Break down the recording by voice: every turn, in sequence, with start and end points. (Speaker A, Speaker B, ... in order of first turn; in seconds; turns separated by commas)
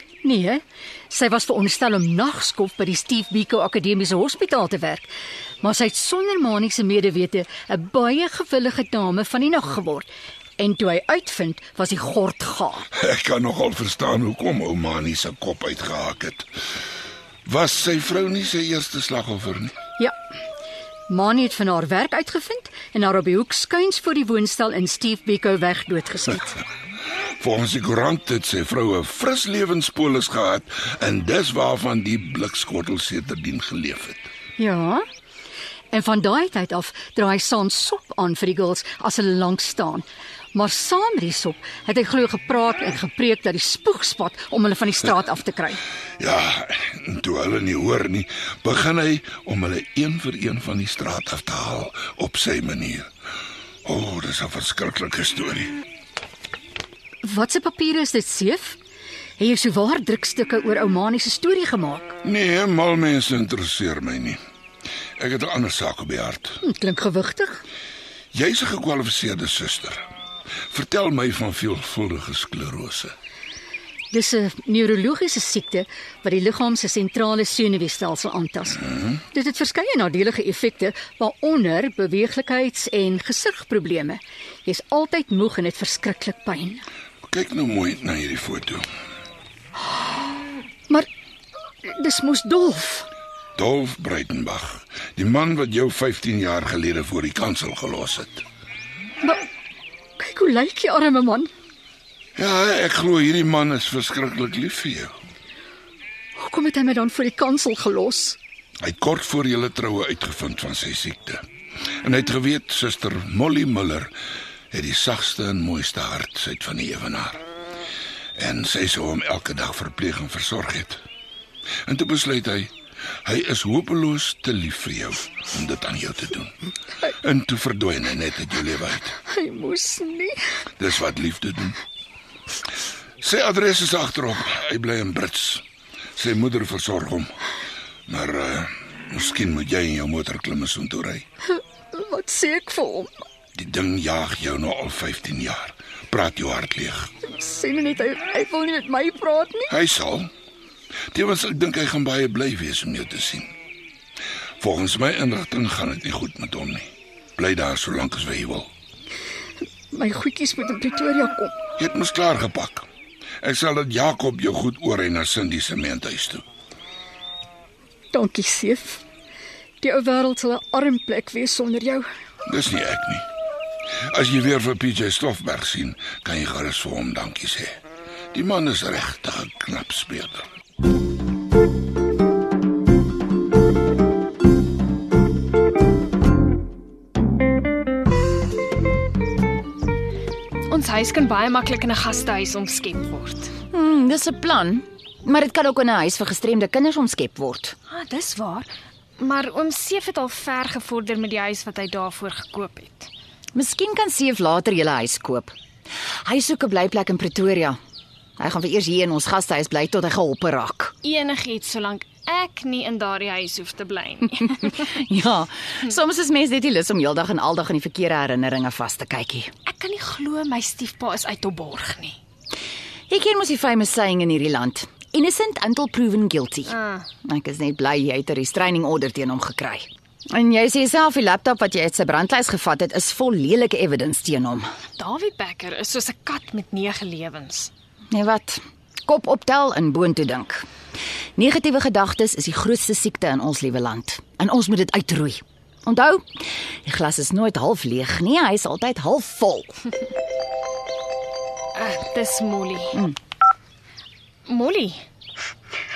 Speaker A: 0.2-5.1, Speaker A: 5.6-12.8, Speaker B: 12.9-16.4, Speaker B: 17.4-19.7, Speaker A: 21.1-26.6, Speaker B: 27.4-34.3, Speaker A: 34.6-35.0, Speaker A: 35.9-45.8, Speaker B: 46.2-53.1, Speaker B: 53.8-55.7, Speaker A: 57.2-58.8, Speaker A: 59.4-62.1, Speaker B: 62.2-64.4, Speaker B: 65.2-66.6, Speaker A: 66.6-67.6, Speaker B: 68.3-70.1, Speaker B: 70.7-73.1, Speaker A: 74.1-86.8, Speaker B: 87.3-88.8, Speaker A: 91.8-93.1, Speaker B: 93.5-98.4, Speaker A: 100.2-101.5, Speaker B: 102.3-105.1, Speaker A: 106.4-108.4, Speaker B: 108.8-111.4, Speaker B: 112.0-114.1, Speaker B: 114.7-117.4, Speaker B: 118.4-121.0, Speaker B: 121.9-122.7, Speaker B: 123.2-126.5, Speaker B: 127.2-129.1, Speaker A: 129.3-130.3, Speaker B: 130.8-131.8, Speaker B: 133.2-135.6, Speaker B: 136.2-137.3, Speaker B: 138.1-141.2, Speaker A: 141.9-143.2, Speaker B: 143.6-147.1, Speaker A: 147.2-149.7, Speaker B: 149.7-150.3, Speaker B: 151.1-153.5, Speaker B: 154.6-158.7, Speaker A: 159.9-161.5, Speaker B: 161.8-162.8, Speaker B: 163.4-166.4, Speaker A: 168.1-169.0, Speaker A: 169.8-172.1, Speaker B: 172.4-173.2, Speaker B: 174.1-177.8, Speaker B: 178.3-180.5, Speaker C: 190.7-193.5, Speaker D: 193.7-197.7, Speaker C: 197.9-198.7, Speaker C: 199.2-203.1, Speaker D: 203.5-205.5, Speaker D: 206.2-207.8, Speaker D: 208.4-210.9, Speaker C: 211.0-214.7, Speaker D: 214.5-219.5, Speaker C: 219.7-222.2, Speaker D: 223.1-234.7, Speaker C: 226.7-227.0, Speaker C: 235.0-237.7, Speaker D: 238.1-240.7, Speaker D: 241.3-249.8, Speaker C: 251.8-253.0, Speaker C: 254.5-255.0